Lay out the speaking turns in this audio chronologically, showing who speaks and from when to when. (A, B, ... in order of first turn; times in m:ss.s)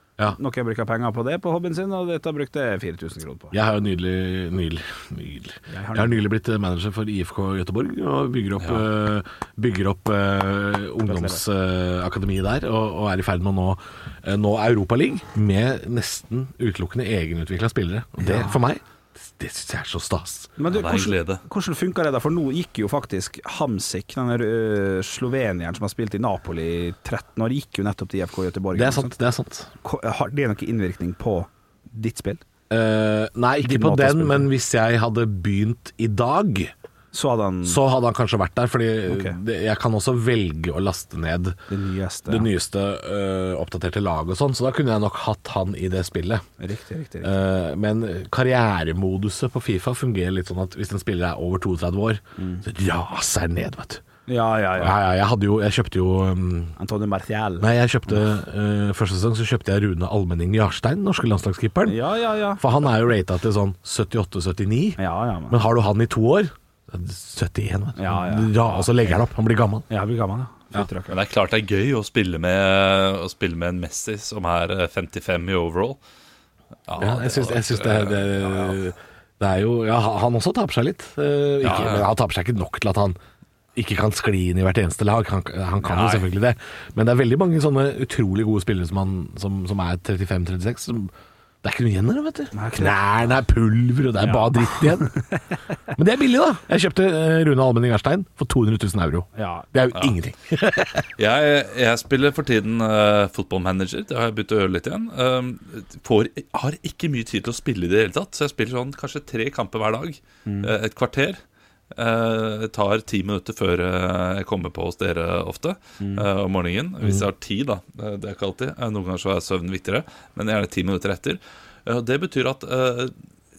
0:00.4-0:03.5 A
0:03.5-0:20.5 B
0:05.7-0:06.2 A
0:11.0-0:11.4 A
0:18.2-0:18.6 A
0:20.6-0:29.1 A
0:20.7-0:21.4 C
0:28.7-0:29.7 B
0:29.8-0:32.4 A
0:32.7-0:36.7 B
0:33.6-0:34.5 A
0:37.1-0:37.8 A
0:37.6-0:41.6 B
0:39.1-0:39.4 A
0:41.7-0:42.5 A
0:42.3-0:46.4 B
0:46.6-0:47.3 A
0:47.2-0:54.0 B
0:52.4-0:52.6 A
0:54.3-0:55.0 A
0:54.8-0:56.7 B
0:56.8-0:58.2 A
0:57.6-1:02.0 B
1:01.8-1:02.6 A
1:02.6-1:09.8 B
1:05.0-1:05.6 A
1:08.0-1:09.2 A
1:09.9-1:11.2 A
1:11.1-1:16.0 C
1:16.9-1:18.8 C
1:17.0-1:23.2 B
1:21.6-1:22.1 C
1:23.7-1:31.1 B
1:31.6-1:35.2 B
1:32.5-1:33.0 A
1:34.2-1:35.2 A
1:35.9-1:41.1 B
1:39.4-1:39.6 A
1:41.2-1:51.4 C
1:51.9-2:03.1 C
1:56.0-1:56.2 A
1:57.0-1:57.3 B